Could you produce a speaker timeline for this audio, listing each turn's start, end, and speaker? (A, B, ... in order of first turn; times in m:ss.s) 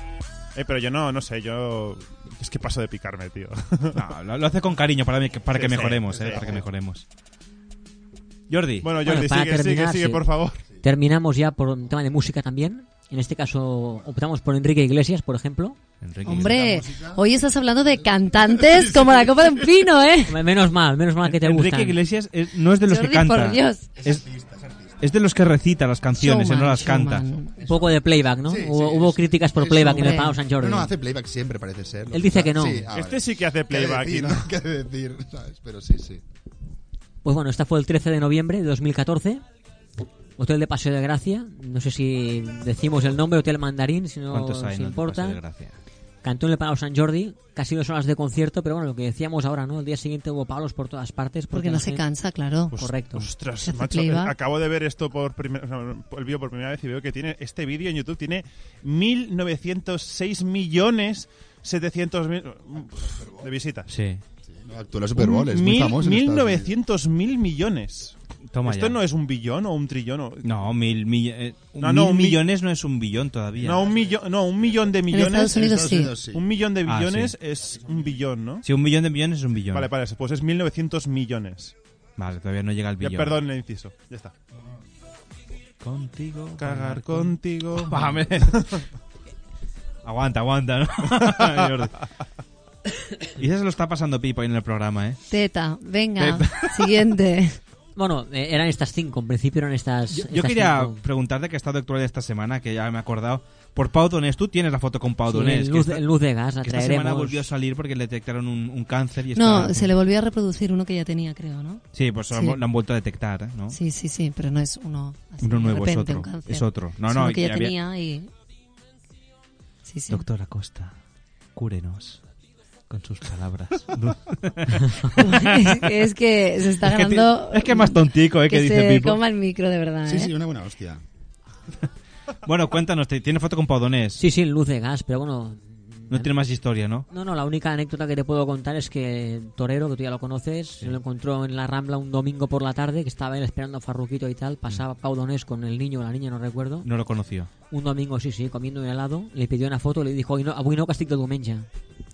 0:00.6-0:04.0 A
0:03.9-0:07.0 B
0:05.5-0:06.6 A
0:06.2-0:06.6 C
0:08.5-0:08.9 B
0:08.8-0:10.6 A
0:09.0-0:10.2 D
0:10.8-0:15.8 D
0:16.0-0:16.7 B
0:16.2-0:20.4 E
0:16.3-0:17.2 C
0:20.3-0:22.0 D
0:21.2-0:24.2 B
0:22.9-0:23.9 E
0:24.0-0:25.0 C
0:25.0-0:27.2 B
0:26.2-0:27.5 E
0:27.6-0:30.9 D
0:27.6-0:36.2 C
0:29.9-0:30.4 E
0:32.1-0:32.9 D
0:32.9-0:34.4 A
0:37.2-0:39.4 D
0:40.4-0:45.4 D
0:44.3-0:45.8 B
0:46.2-0:52.0 D
0:51.5-0:52.9 E
0:52.8-0:53.3 D
0:53.1-1:03.9 A
0:53.6-0:54.3 E
1:03.9-1:04.2 B
1:04.5-1:06.7 C
1:05.2-1:10.4 A
1:08.5-1:09.0 B
1:10.4-1:13.9 B
1:11.8-1:12.4 A
1:13.6-1:15.7 A
1:15.1-1:16.2 E
1:15.4-1:16.4 C
1:16.3-1:18.6 A
1:16.8-1:17.3 B
1:18.6-1:19.9 B
1:19.7-1:21.7 A
1:22.2-1:23.4 B
1:23.0-1:24.3 A
1:25.8-1:28.5 B
1:26.6-1:28.8 A
1:30.0-1:31.9 B
1:31.2-1:31.7 A
1:33.4-1:35.2 B
1:35.3-1:37.6 E
1:36.2-1:36.9 B
1:38.0-1:41.0 D
1:40.1-1:46.0 B
1:45.3-1:47.5 D
1:46.6-1:49.9 B
1:49.4-1:52.6 E
1:51.9-1:53.8 B
1:53.7-1:58.3 E
1:55.4-1:57.7 B
1:59.8-2:00.2 E
2:00.1-2:00.9 B
2:01.5-2:02.2 B
2:02.9-2:05.9 B
2:05.2-2:10.3 E
2:06.8-2:09.2 B
2:10.0-2:11.0 C
2:12.4-2:14.2 B
2:14.2-2:16.3 D
2:16.1-2:17.0 B
2:17.1-2:26.9 D
2:26.8-2:27.5 B
2:27.7-2:31.6 D